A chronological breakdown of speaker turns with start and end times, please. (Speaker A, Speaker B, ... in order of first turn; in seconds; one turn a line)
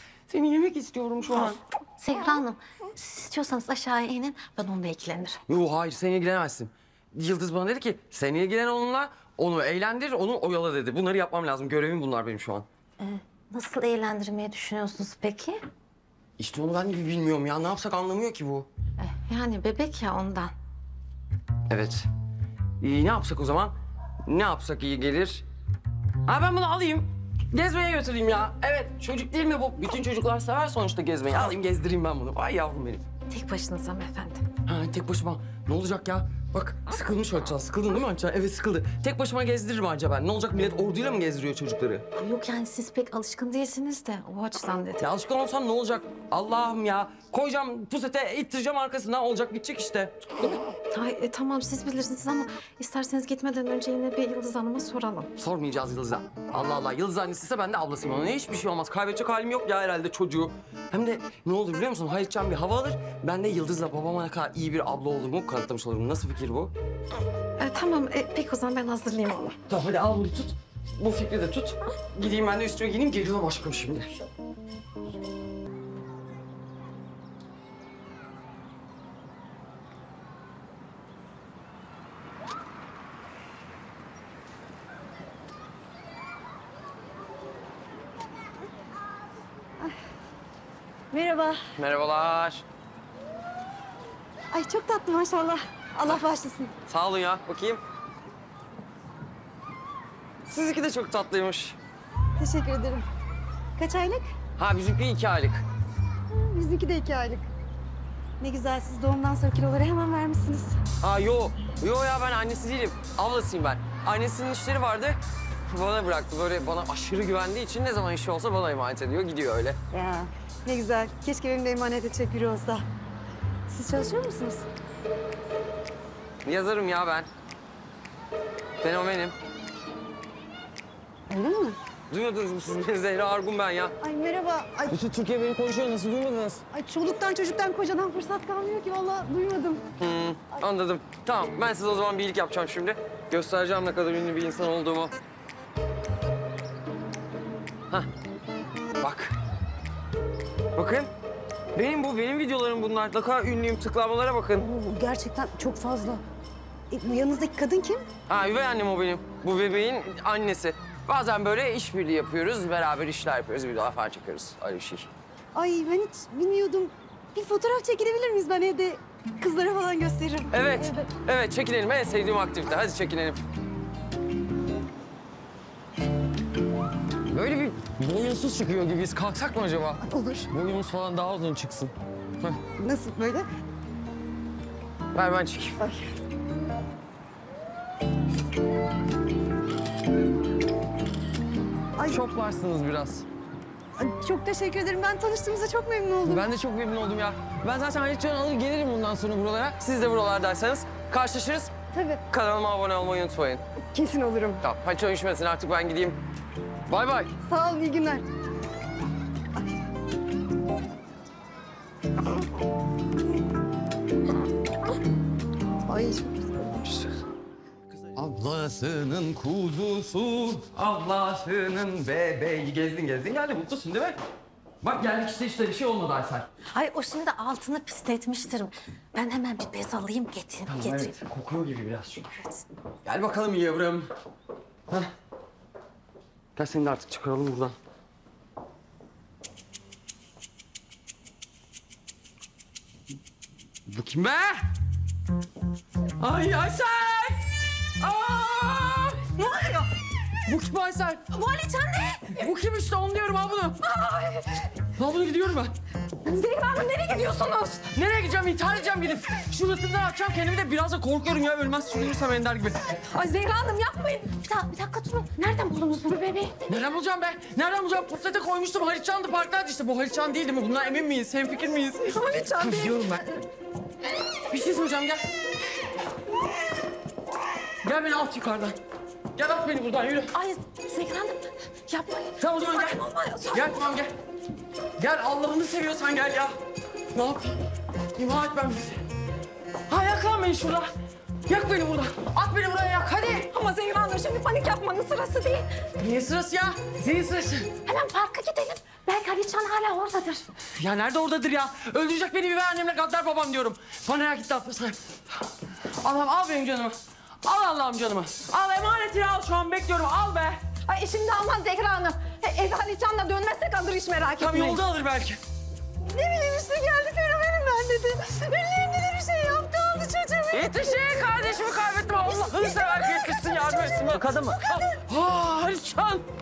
Speaker A: 0.3-1.6
Speaker B: 2.0-5.4
Speaker A: 5.5-12.7
Speaker B: 13.0-15.6
Speaker A: 16.4-18.7
Speaker B: 19.0-20.5
Speaker A: 21.7-22.1
Speaker A: 22.8-23.8
Speaker A: 24.3-25.4
Speaker A: 26.3-33.0
Speaker B: 33.3-34.4
Speaker A: 34.7-42.0
Speaker B: 42.1-45.0
Speaker A: 45.0-50.5
Speaker B: 50.9-55.3
Speaker A: 55.4-66.7
Speaker B: 67.6-69.5
Speaker A: 69.7-74.1
Speaker C: 91.1-91.6
Speaker A: 91.8-92.6
Speaker C: 94.5-96.7
Speaker A: 96.9-97.8
Speaker A: 100.5-101.8
Speaker C: 102.4-103.1
Speaker C: 103.8-104.3
Speaker A: 104.6-105.6
Speaker C: 106.3-107.5
Speaker C: 108.4-110.8
Speaker A: 111.0-119.8
Speaker C: 119.9-122.8
Speaker C: 123.7-124.7
Speaker A: 126.4-127.3
Speaker A: 128.8-129.4
Speaker C: 131.3-131.8
Speaker A: 132.1-133.9
Speaker C: 134.0-135.0
Speaker A: 134.9-136.6
Speaker C: 136.7-139.8
Speaker A: 140.0-145.2
Speaker A: 149.0-149.3
Speaker A: 150.8-151.1
Speaker A: 151.7-154.7
Speaker C: 154.6-156.2
Speaker C: 156.9-158.1
Speaker A: 158.3-165.1
Speaker C: 165.5-171.0
Speaker A: 170.5-173.4
Speaker A: 177.3-182.6
Speaker C: 180.1-180.5
Speaker C: 182.8-183.5
Speaker A: 185.1-185.9
Speaker A: 192.0-193.3
Speaker C: 194.0-196.4
Speaker A: 196.2-201.7
Speaker C: 201.9-202.2
Speaker A: 202.3-203.6
Speaker C: 203.9-204.6
Speaker A: 204.6-206.2
Speaker A: 206.9-207.3
Speaker C: 207.4-208.3
Speaker C: 215.8-217.1
Speaker A: 218.1-224.2
Speaker A: 224.8-226.5
Speaker B: 226.7-231.1
Speaker A: 230.7-232.3
Speaker A: 233.0-234.1
Speaker A: 236.6-237.8
Speaker A: 243.9-244.7
Speaker A: 246.2-247.4
Speaker A: 248.0-249.3
Speaker B: 249.4-249.9
Speaker A: 250.4-251.3
Speaker B: 251.3-252.3
Speaker A: 252.3-253.8
Speaker B: 253.8-254.6
Speaker A: 254.9-255.8
Speaker B: 256.2-257.9
Speaker A: 257.9-262.9
Speaker B: 263.1-266.5
Speaker A: 266.7-273.2
Speaker B: 272.1-273.0
Speaker A: 274.5-275.2
Speaker A: 277.8-278.8
Speaker A: 279.4-280.3
Speaker B: 280.3-283.8
Speaker A: 282.4-284.1
Speaker A: 285.0-286.6
Speaker A: 287.1-287.6
Speaker A: 288.1-289.0
Speaker A: 289.9-290.9
Speaker A: 291.5-293.5
Speaker B: 293.4-295.7
Speaker A: 296.0-297.7
Speaker B: 297.9-300.4
Speaker A: 300.8-305.0
Speaker A: 306.0-310.6
Speaker B: 310.9-314.8
Speaker A: 314.4-315.4
Speaker C: 316.1-321.1
Speaker A: 320.5-326.2
Speaker C: 322.2-324.9